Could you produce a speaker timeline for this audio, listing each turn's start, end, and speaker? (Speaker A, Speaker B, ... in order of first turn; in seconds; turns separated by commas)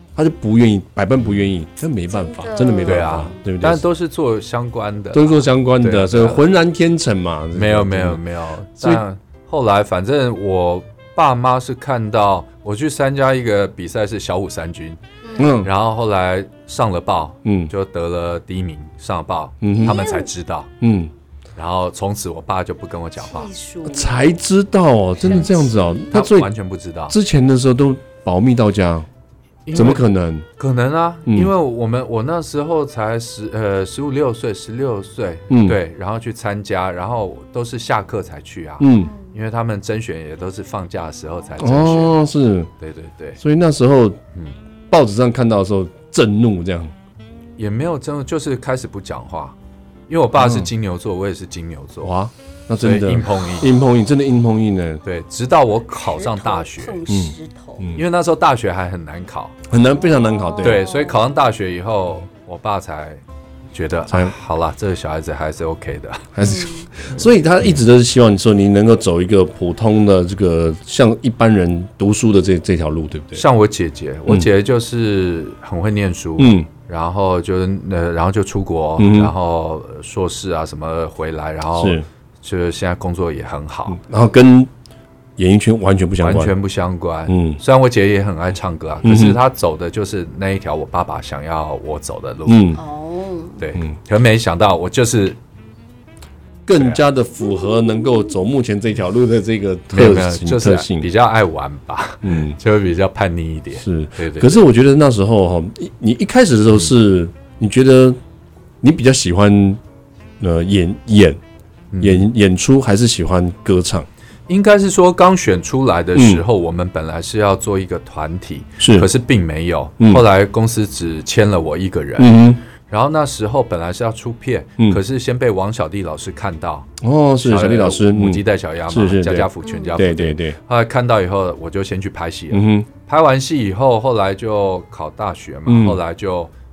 Speaker A: 0.2-3.8, Speaker B: 2.1-3.4, Speaker C: 2.8-6.5, Speaker A: 5.1-8.2, Speaker C: 7.5-15.0, Speaker A: 15.4-15.7, Speaker C: 15.6-20.7, Speaker A: 17.4-17.7, Speaker A: 19.6-20.0, Speaker B: 19.7-20.3, Speaker A: 20.8-21.1, Speaker C: 21.6-23.5, Speaker B: 23.2-24.3, Speaker A: 23.9-26.5, Speaker B: 25.2-26.2, Speaker C: 26.1-27.1, Speaker A: 27.1-29.1, Speaker C: 29.7-30.1, Speaker A: 29.7-30.5, Speaker C: 30.6-42.2, Speaker A: 31.3-31.5, Speaker A: 35.5-35.8, Speaker A: 38.8-39.1, Speaker B: 39.0-39.3, Speaker A: 41.6-42.7, Speaker C: 42.8-43.4, Speaker A: 43.4-44.2, Speaker A: 44.9-46.9, Speaker C: 47.6-49.5, Speaker C: 50.1-52.1, Speaker A: 50.4-50.7, Speaker A: 52.0-55.0, Speaker C: 52.8-53.7, Speaker C: 55.0-57.0, Speaker B: 56.0-57.9, Speaker A: 57.1-58.0, Speaker C: 58.0-59.5, Speaker A: 59.7-60.8, Speaker B: 59.9-61.2, Speaker C: 60.6-63.2, Speaker C: 63.7-66.5, Speaker A: 64.1-64.3, Speaker A: 66.3-73.4, Speaker B: 66.4-66.9, Speaker C: 73.4-84.0, Speaker A: 76.4-76.7, Speaker A: 79.0-79.3, Speaker A: 81.8-82.0, Speaker A: 83.9-84.7, Speaker A: 85.4-86.5, Speaker C: 86.2-92.8, Speaker A: 87.3-87.6, Speaker A: 89.0-89.4, Speaker A: 92.5-92.8, Speaker B: 92.8-93.6, Speaker C: 93.6-95.4, Speaker A: 96.7-101.1, Speaker C: 99.9-104.6, Speaker A: 102.2-102.6, Speaker A: 103.8-108.2, Speaker A: 108.8-109.8, Speaker A: 110.4-111.4, Speaker C: 111.9-112.3, Speaker A: 112.0-114.1, Speaker C: 114.5-122.3, Speaker A: 116.2-116.4, Speaker A: 118.8-119.1, Speaker A: 122.2-122.6, Speaker C: 122.9-126.9, Speaker A: 127.0-130.6, Speaker C: 127.4-136.5, Speaker B: 129.6-130.0, Speaker A: 132.5-132.9, Speaker A: 135.7-136.0